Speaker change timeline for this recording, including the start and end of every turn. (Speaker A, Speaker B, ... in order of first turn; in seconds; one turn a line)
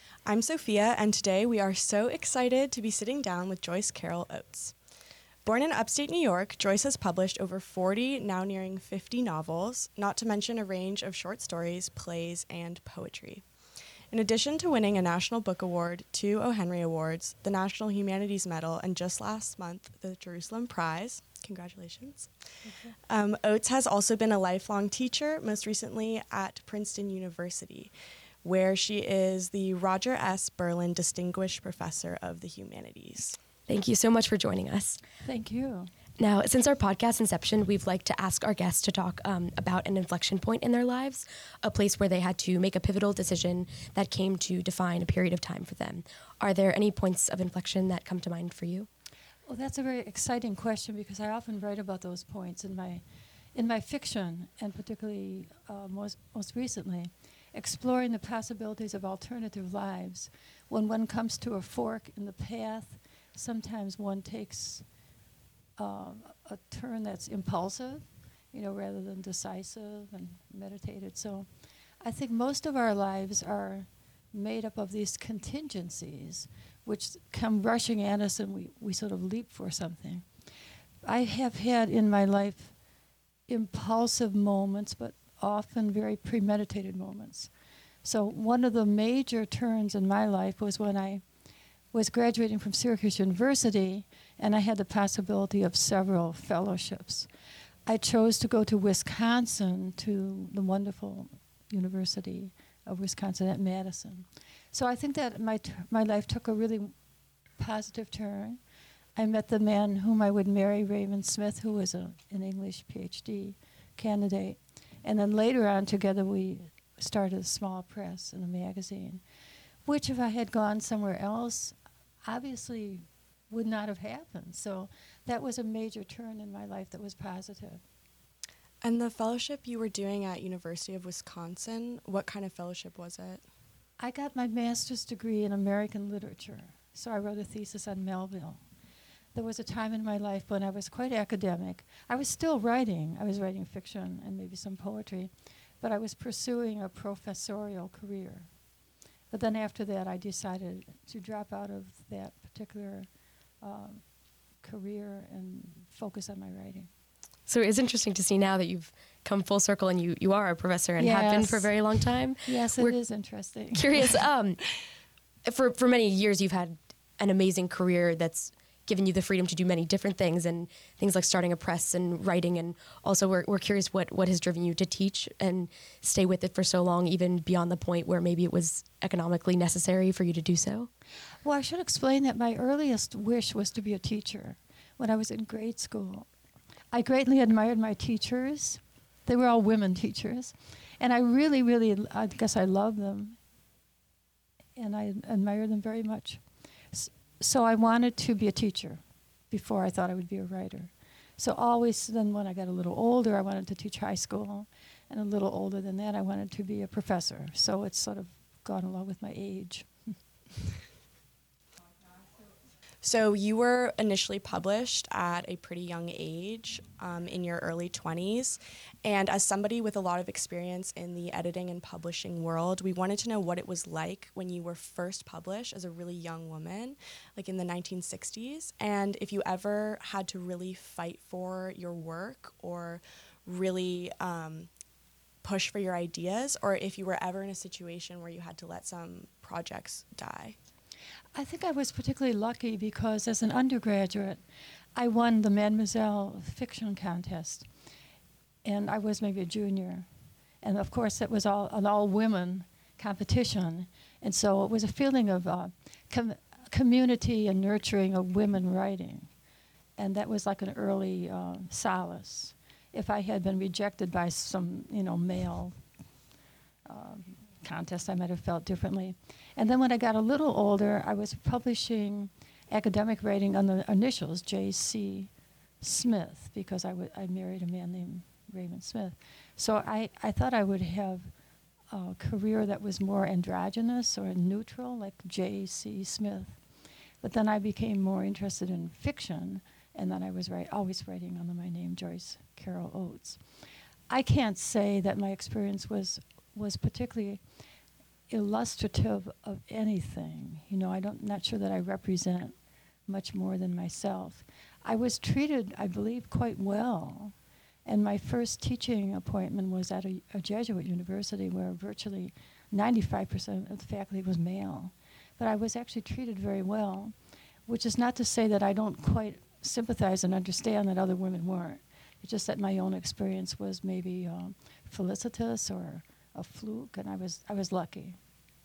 Speaker A: 0.3-4.8
Speaker A: 5.5-13.5
Speaker A: 14.1-22.3
Speaker B: 22.6-23.0
Speaker A: 23.1-27.9
Speaker A: 28.4-33.4
Speaker C: 33.7-35.0
Speaker B: 35.2-35.9
Speaker C: 36.2-48.9
Speaker B: 49.5-64.9
Speaker B: 65.8-80.3
Speaker B: 81.0-82.8
Speaker B: 83.5-87.5
Speaker B: 88.0-91.2
Speaker B: 91.9-97.3
Speaker B: 97.9-107.0
Speaker B: 107.6-108.6
Speaker B: 109.2-119.2
Speaker B: 119.8-127.8
Speaker A: 128.8-133.5
Speaker B: 134.0-138.7
Speaker B: 139.3-148.5
Speaker B: 149.3-153.1
Speaker B: 153.6-154.1
Speaker B: 154.6-156.9
Speaker C: 157.5-163.0
Speaker B: 161.0-164.2
Speaker C: 163.7-164.6
Speaker C: 165.5-180.9
Speaker B: 181.4-186.3
Speaker B: 186.9-193.4
Speaker B: 194.8-210.1
Speaker A: 213.0-234.7
Speaker A: 235.4-240.6
Speaker B: 241.3-244.4
Speaker B: 244.9-247.7
Speaker B: 248.6-250.1
Speaker B: 250.6-259.3
Speaker B: 260.0-265.8
Speaker B: 266.9-281.3
Speaker B: 281.9-286.6
Speaker B: 287.2-293.4
Speaker B: 294.1-297.4
Speaker B: 298.3-328.2